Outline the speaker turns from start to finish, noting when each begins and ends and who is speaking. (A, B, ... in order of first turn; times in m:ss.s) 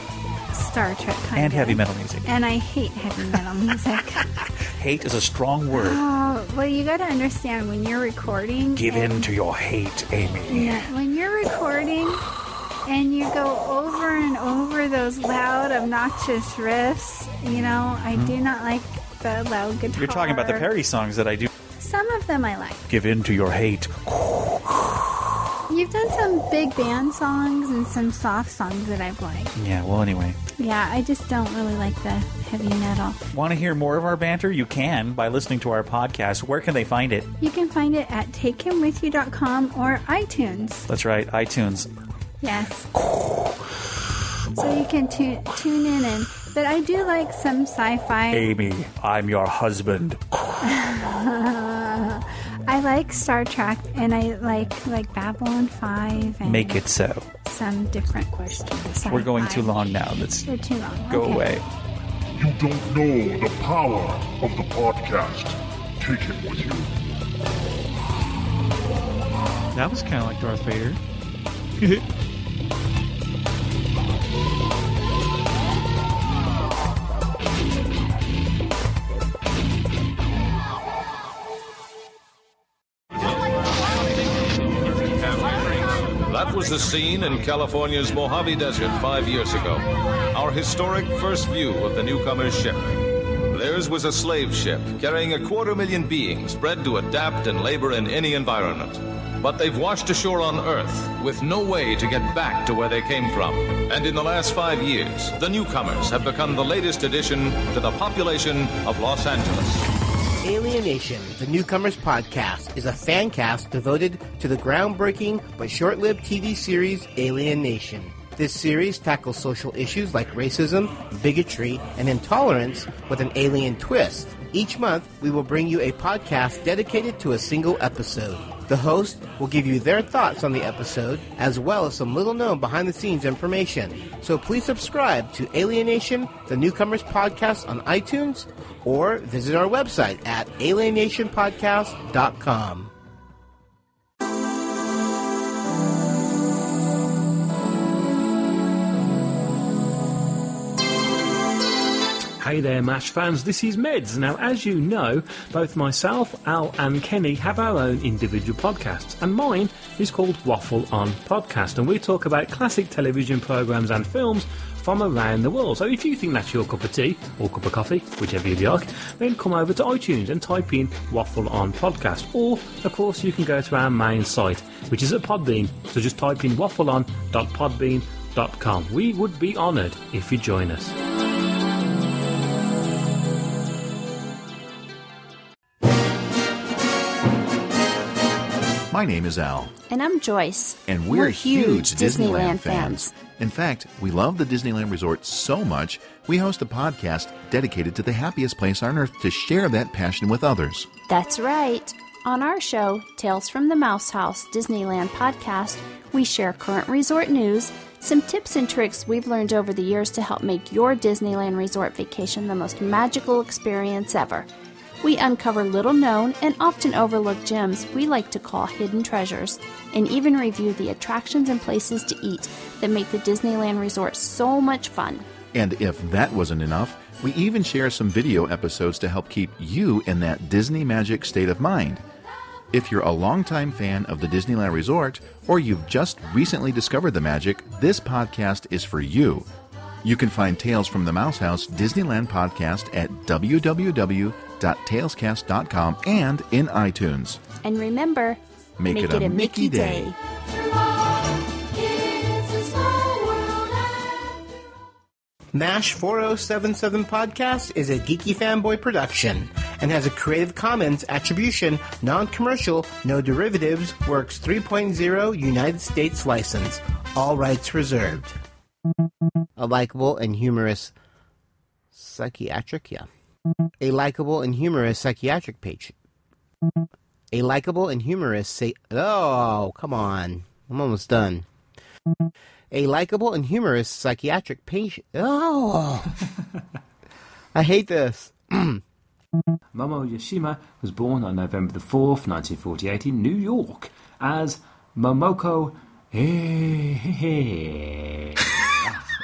0:00.5-0:04.3 A
0:01.4-0:02.3 B
0:04.8-0:06.0 B
0:05.7-0:09.3 A
0:08.7-0:10.9 B
0:10.5-0:12.2 A
0:12.9-0:20.7 A
0:17.5-0:18.4 B
0:20.0-0:21.5 B
0:21.8-0:22.8 A
0:22.9-0:25.0 B
0:25.7-0:29.5 A
0:29.6-0:30.4 B
0:30.6-0:33.2 A
0:33.3-0:37.3 B
0:37.4-0:40.9 A
0:40.9-0:41.9 B
0:42.4-0:42.9 A
0:44.6-0:48.5 A
0:48.3-0:50.4 B
0:50.6-0:59.8 A
0:56.4-0:57.3 B
0:59.1-1:00.5 B
1:00.4-1:01.5 A
1:01.1-1:01.6 B
1:02.4-1:06.9 C
1:09.7-1:11.0 B
1:11.8-1:12.0 B
1:26.3-1:33.0 D
1:33.5-1:49.9 D
1:50.4-2:22.9 E
2:32.4-3:01.0 F
3:08.9-3:09.7 G
3:09.9-3:13.1 H
3:10.9-3:20.9 G
3:21.1-3:34.5 H
3:35.0-3:45.3 H
3:45.5-3:52.0 G
3:52.7-3:59.5 G
4:00.0-4:07.4 G
4:07.6-4:08.4 H
4:08.8-4:10.1 G
4:08.9-4:10.2 H
4:15.5-4:28.4 E
4:29.6-4:30.9 E
4:31.9-4:33.1 E
4:33.8-4:35.9 E
4:37.3-4:41.5 E
4:42.7-4:46.2 E
4:47.5-4:48.8 E
4:49.7-4:58.4 F